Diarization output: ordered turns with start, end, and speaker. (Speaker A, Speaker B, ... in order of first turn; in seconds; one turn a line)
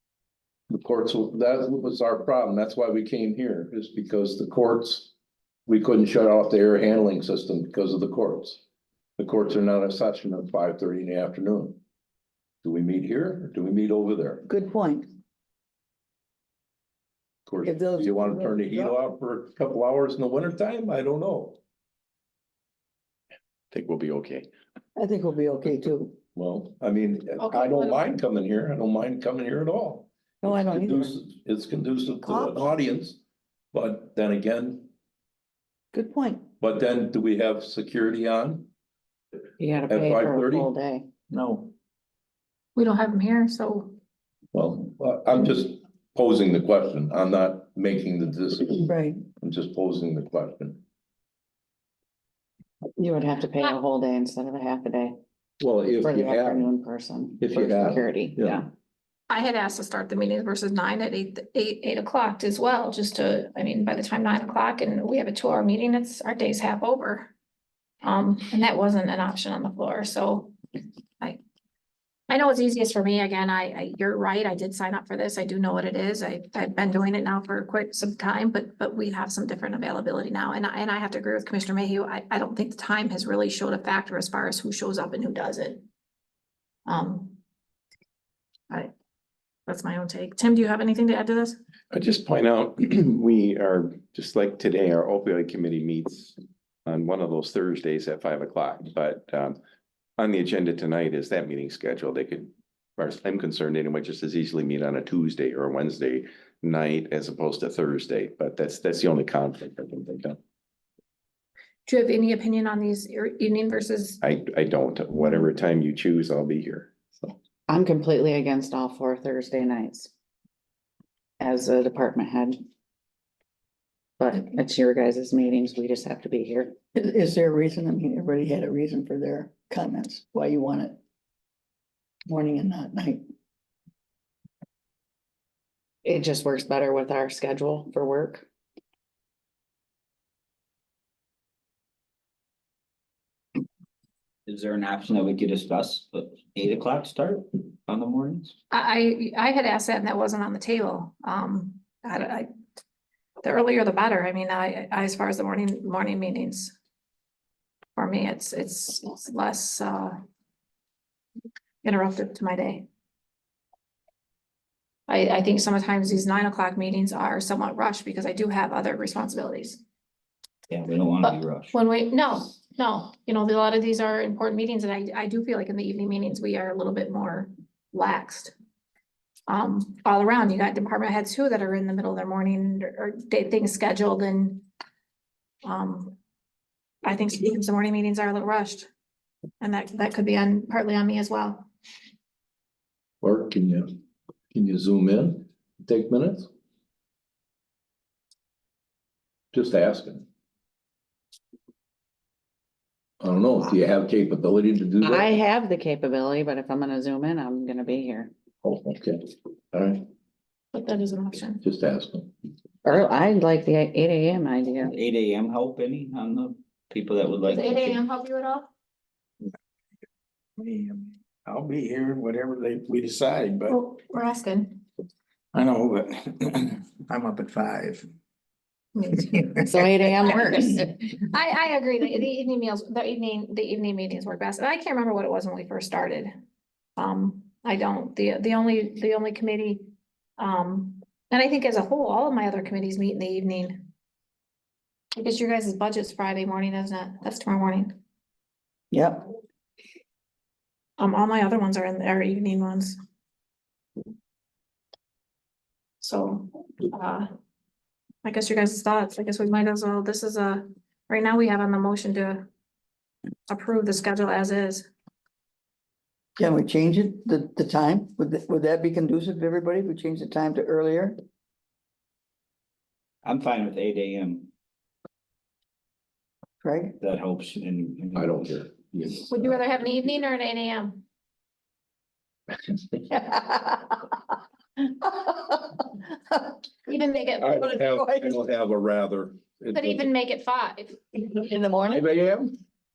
Speaker A: 0.7-5.1
Speaker A: 5.7-8.6
Speaker A: 9.2-11.8
Speaker A: 12.6-14.5
Speaker B: 14.5-15.1
Speaker A: 17.5-21.6
Speaker B: 17.6-18.9
Speaker C: 23.7-24.5
Speaker B: 25.0-26.2
Speaker A: 26.4-33.2
Speaker D: 27.4-28.1
Speaker B: 30.4-31.2
Speaker B: 32.2-32.7
Speaker A: 33.7-34.9
Speaker B: 35.9-36.5
Speaker A: 36.6-38.7
Speaker E: 39.6-41.1
Speaker A: 39.9-40.7
Speaker D: 42.8-44.0
Speaker A: 44.5-48.9
Speaker B: 48.8-49.2
Speaker A: 49.4-50.8
Speaker E: 53.0-55.2
Speaker A: 55.6-56.7
Speaker E: 56.0-58.7
Speaker A: 57.4-58.6
Speaker D: 59.3-67.3
Speaker D: 68.0-70.6
Speaker D: 72.3-85.9
Speaker D: 86.9-87.4
Speaker D: 89.7-91.6
Speaker C: 91.9-99.6
Speaker C: 100.2-110.4
Speaker D: 111.9-114.2
Speaker C: 114.2-117.3
Speaker E: 117.7-120.1
Speaker E: 121.4-122.6
Speaker E: 124.2-126.8
Speaker B: 127.0-131.0
Speaker B: 132.3-133.2
Speaker E: 136.1-138.5
Speaker F: 144.5-148.5
Speaker D: 148.7-152.5
Speaker D: 153.4-156.8
Speaker D: 157.9-160.2
Speaker D: 161.8-162.9
Speaker D: 165.1-169.8
Speaker F: 170.7-171.8
Speaker D: 171.2-178.6
Speaker D: 179.5-184.7
Speaker D: 185.6-186.2
Speaker D: 187.0-188.9
Speaker D: 189.6-191.7
Speaker A: 193.2-193.9
Speaker A: 194.5-196.5
Speaker A: 199.5-200.3
Speaker A: 203.2-205.3
Speaker E: 205.0-208.3
Speaker A: 208.6-210.0
Speaker D: 210.7-211.6
Speaker A: 211.6-212.3
Speaker E: 212.8-214.9
Speaker F: 214.8-218.0
Speaker D: 217.5-218.7
Speaker G: 220.6-223.8
Speaker D: 223.7-224.8
Speaker G: 225.5-228.1
Speaker D: 228.9-229.5
Speaker E: 229.6-230.9
Speaker D: 230.4-236.3
Speaker D: 237.0-243.9
Speaker D: 245.2-248.0
Speaker B: 248.9-249.3
Speaker D: 251.0-253.0
Speaker D: 256.0-257.3
Speaker D: 258.2-262.5
Speaker D: 263.5-264.9
Speaker B: 266.4-271.1
Speaker F: 273.2-274.5
Speaker B: 276.6-277.0
Speaker F: 277.0-278.5
Speaker A: 278.1-279.3
Speaker D: 279.3-281.0
Speaker B: 283.1-284.2
Speaker B: 284.8-286.6
Speaker D: 286.8-287.8
Speaker A: 287.4-290.1
Speaker B: 287.9-288.4
Speaker D: 289.7-291.0
Speaker B: 291.3-292.1
Speaker A: 291.9-292.6